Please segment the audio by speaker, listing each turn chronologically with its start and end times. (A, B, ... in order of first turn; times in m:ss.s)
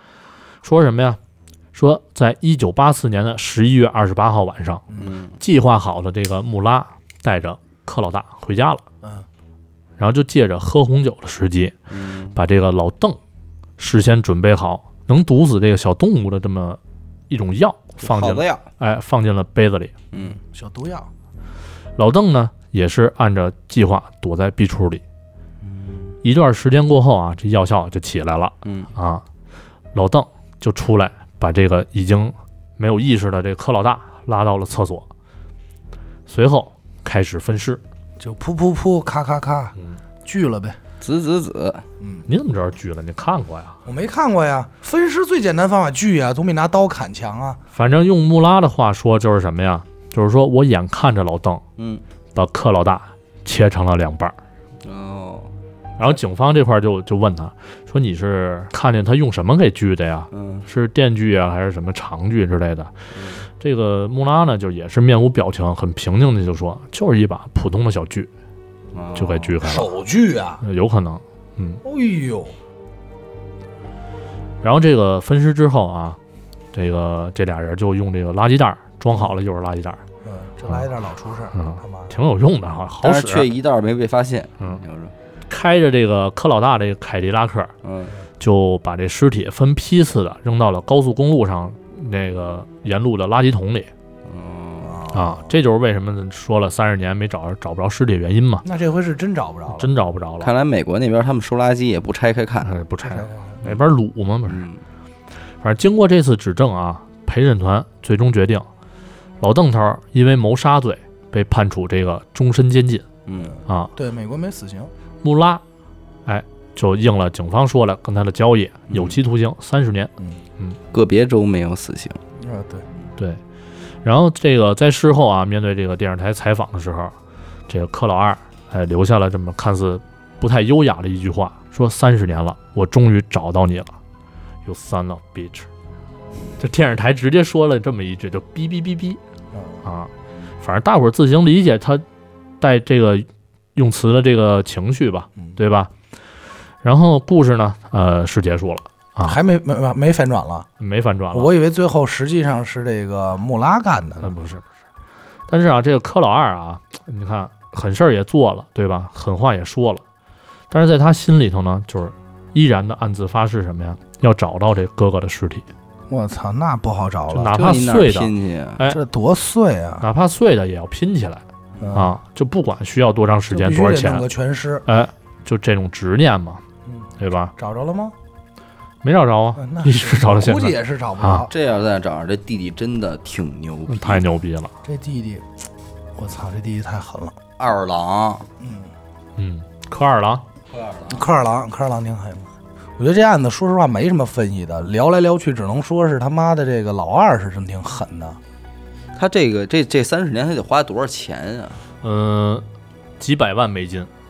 0:00.6-0:01.2 A
0:01.7-0:04.9 A
0:05.0-0:05.4 B
0:05.4-0:08.8 A
0:09.0-0:09.3 C
0:10.0-0:11.8 A
0:11.9-0:12.4 B
0:12.4-0:13.2 A
0:13.8-0:20.0 A
0:18.0-0:18.6 B
0:20.1-0:20.4 B
0:20.1-0:21.1 C
0:22.0-0:25.0 A
0:25.6-0:26.2 B
0:26.2-0:29.2 A
0:28.6-0:28.9 B
0:29.9-0:35.1 A
0:36.3-0:37.8 A
0:38.2-0:40.8 C
0:41.0-0:41.8 B
0:42.0-0:42.3 C
0:42.3-0:43.8 A
0:43.9-0:47.6 C
0:47.7-0:51.6 A
0:51.8-0:52.0 B
0:52.4-0:54.4 A
0:54.8-0:55.5 B
0:56.0-1:02.9 A
1:00.3-1:00.7 B
1:03.1-1:03.4 B
1:03.6-1:08.3 A
1:08.9-1:09.5 B
1:09.2-1:09.9 A
1:09.6-1:10.6 C
1:10.6-1:11.8 A
1:11.8-1:12.6 C
1:14.6-1:16.2 A
1:16.7-1:20.0 A
1:20.2-1:22.2 C
1:21.5-1:23.5 A
1:23.0-1:25.1 B
1:25.5-1:27.7 A
1:27.8-1:28.2 B
1:28.4-1:33.9 A
1:34.2-1:35.0 B
1:34.8-1:35.5 C
1:35.1-1:38.6 A
1:38.6-1:39.9 C
1:39.7-1:40.5 A
1:40.4-1:42.7 B
1:42.6-1:44.7 A
1:43.0-1:43.6 C
1:44.5-1:44.8 B
1:45.6-1:48.7 A
1:49.4-1:53.1 A
1:53.3-1:53.6 B
1:53.4-1:54.9 C
1:53.7-1:53.9 A
1:55.2-1:55.6 A
1:56.3-2:00.8 A
1:58.9-1:59.2 B
2:00.9-2:02.2 B
2:02.4-2:02.9 C
2:04.0-2:07.2 A
2:07.7-2:14.0 A
2:14.6-2:15.7 A
2:16.6-2:19.2 A
2:19.5-2:19.8 C
2:19.8-2:22.0 A
2:22.6-2:25.9 A
2:26.8-2:29.4 A
2:29.2-2:30.7 C
2:30.8-2:31.5 A
2:31.3-2:34.4 C
2:34.2-2:34.6 A
2:35.5-2:40.0 A
2:40.7-2:45.7 A
2:46.1-2:47.7 C
2:47.3-2:49.0 A
2:47.5-2:48.8 B
2:48.8-2:50.1 C
2:50.0-2:54.3 A
2:51.8-2:52.1 C
2:53.5-2:54.9 C
2:54.9-2:56.6 A
2:56.9-2:58.2 C
2:57.2-2:57.5 A
2:59.0-3:01.5 A
2:59.6-3:01.5 C
3:01.5-3:04.2 B
3:03.9-3:04.7 A
3:04.8-3:05.5 C
3:06.2-3:07.4 C
3:07.6-3:08.5 B
3:08.6-3:08.9 C
3:09.4-3:10.4 A
3:10.7-3:11.3 B
3:11.1-3:18.4 C
3:19.2-3:21.8 B
3:22.0-3:22.6 A
3:23.2-3:24.1 A